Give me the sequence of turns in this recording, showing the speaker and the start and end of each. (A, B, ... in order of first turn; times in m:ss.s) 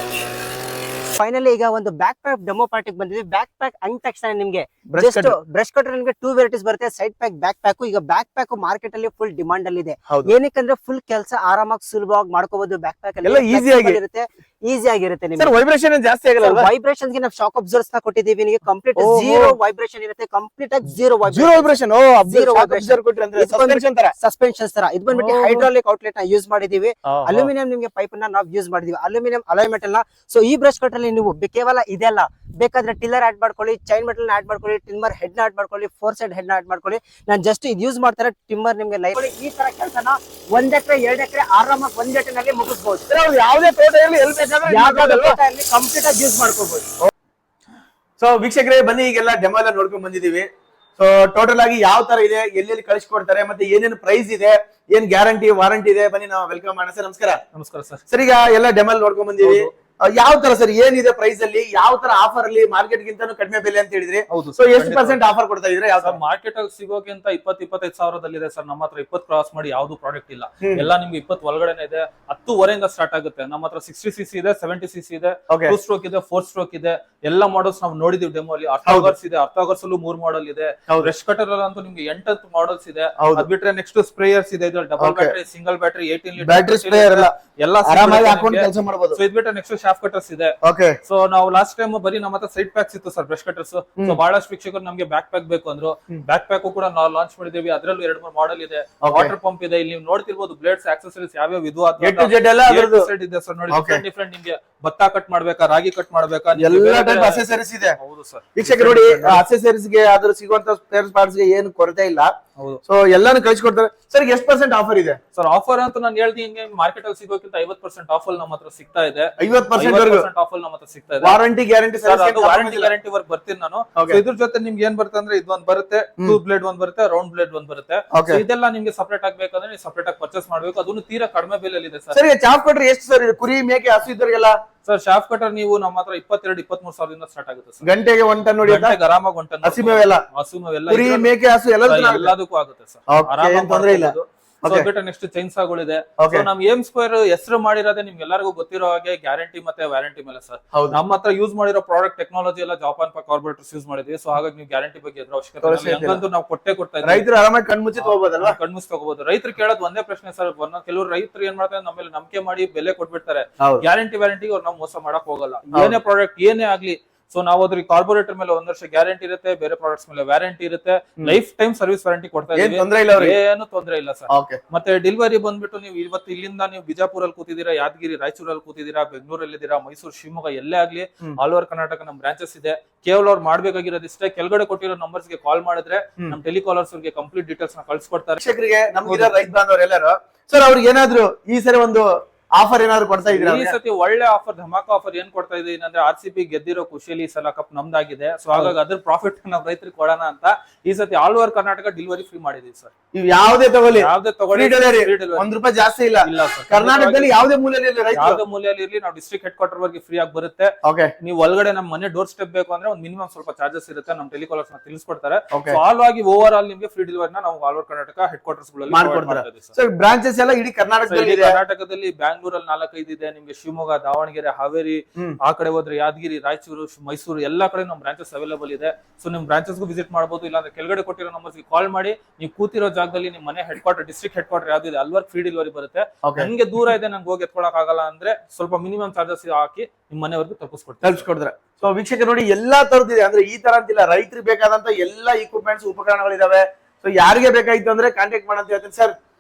0:01.2-0:15.5 A
0:04.9-0:05.4 B
0:13.2-0:14.0 B
0:15.4-0:16.7 B
0:16.4-0:21.7 A
0:19.0-0:19.6 B
0:21.3-0:24.2 B
0:22.3-0:43.1 A
0:25.1-0:25.7 B
0:27.1-0:27.5 B
0:43.1-0:45.4 B
0:44.7-0:46.9 A
0:48.2-0:57.4 B
0:57.5-0:58.0 C
0:58.1-1:06.2 B
0:59.4-0:59.7 C
1:04.3-1:05.2 C
1:06.0-1:49.4 C
1:10.6-1:10.9 B
1:15.5-1:15.8 B
1:18.9-1:19.1 B
1:23.2-1:23.5 B
1:25.0-1:25.4 B
1:26.4-1:27.3 B
1:27.8-1:29.2 B
1:30.6-1:31.0 B
1:39.0-1:39.3 B
1:42.0-1:43.1 B
1:43.7-1:44.0 B
1:46.5-1:48.0 B
1:48.6-1:52.3 B
1:52.9-1:55.2 B
1:55.4-2:01.4 C
1:59.4-2:00.3 B
2:01.2-2:02.9 B
2:02.0-2:12.2 C
2:04.0-2:04.2 B
2:08.1-2:08.4 B
2:12.1-2:14.6 B
2:14.8-2:17.8 C
2:17.8-2:19.0 B
2:18.7-2:21.3 C
2:19.6-2:20.2 B
2:20.9-2:22.3 B
2:21.9-2:37.2 C
2:23.1-2:24.9 B
2:26.2-2:26.5 B
2:35.6-2:36.2 B
2:37.0-2:38.6 B
2:38.0-3:08.4 C
2:45.7-2:46.0 B
2:52.5-2:53.4 B
2:54.3-2:54.6 B
3:08.4-3:13.8 B
3:09.0-3:09.3 C
3:13.3-3:22.9 C
3:23.1-3:28.4 B
3:24.0-3:25.5 C
3:26.2-3:27.5 C
3:28.1-3:39.7 C
3:30.8-3:31.1 B
3:35.5-3:35.8 B
3:38.9-3:41.6 B
3:41.1-4:01.3 C
3:56.2-3:56.5 B
4:01.0-4:09.1 B